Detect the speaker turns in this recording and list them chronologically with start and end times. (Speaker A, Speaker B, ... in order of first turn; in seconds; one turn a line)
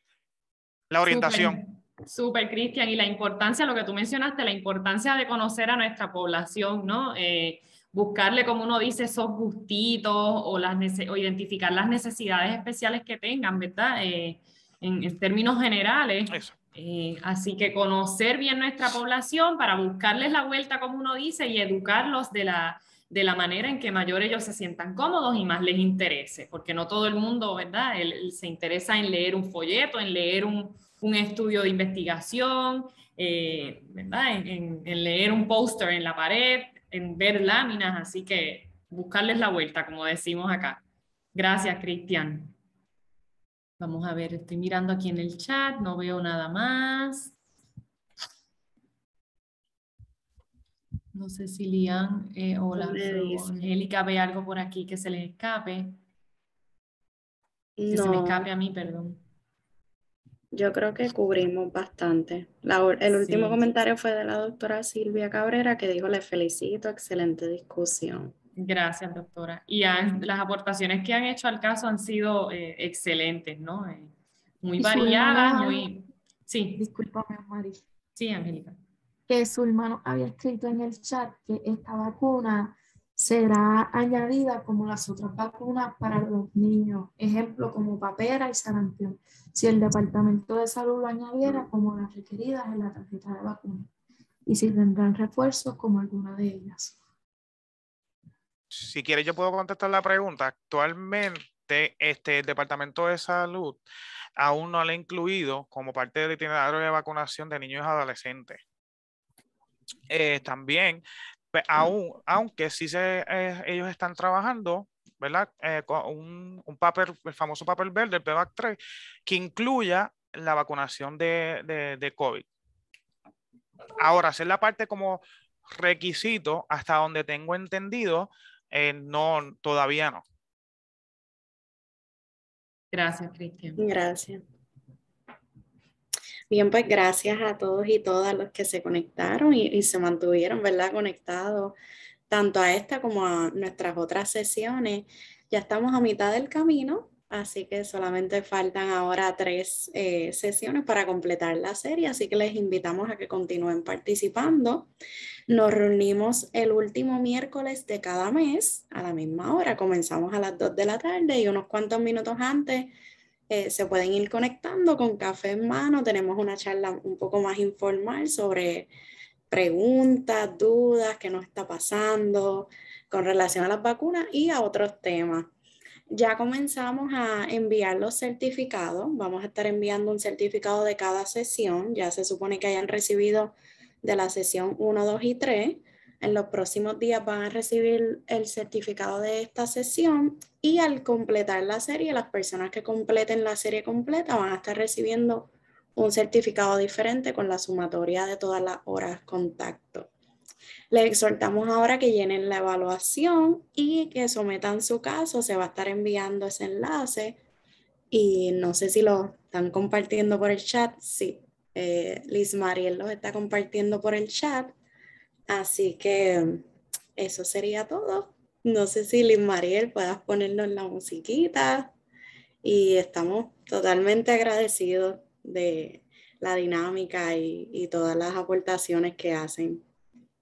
Speaker A: 0.9-1.6
Speaker B: 1.1-40.8
Speaker B: 41.3-42.5
Speaker B: 43.8-47.4
Speaker B: 51.1-56.0
Speaker C: 52.7-53.4
Speaker C: 57.8-58.5
Speaker B: 57.9-59.2
Speaker C: 60.5-68.3
Speaker B: 63.2-63.6
Speaker B: 68.5-76.8
Speaker D: 74.8-75.9
Speaker D: 76.8-77.8
Speaker B: 78.1-78.8
Speaker D: 79.3-93.9
Speaker D: 94.5-97.0
Speaker A: 98.7-103.8
Speaker A: 104.4-108.6
Speaker A: 110.1-122.5
Speaker A: 124.0-130.2
Speaker B: 132.9-133.8
Speaker C: 133.8-134.4
Speaker C: 136.5-141.7
Speaker C: 142.3-154.9
Speaker C: 155.5-162.9
Speaker C: 163.5-168.9
Speaker C: 169.5-175.5
Speaker C: 176.1-200.1
Speaker C: 200.9-207.4
Speaker C: 208.1-214.8
Speaker C: 215.5-216.6
Speaker C: 217.2-221.9
Speaker C: 222.6-229.8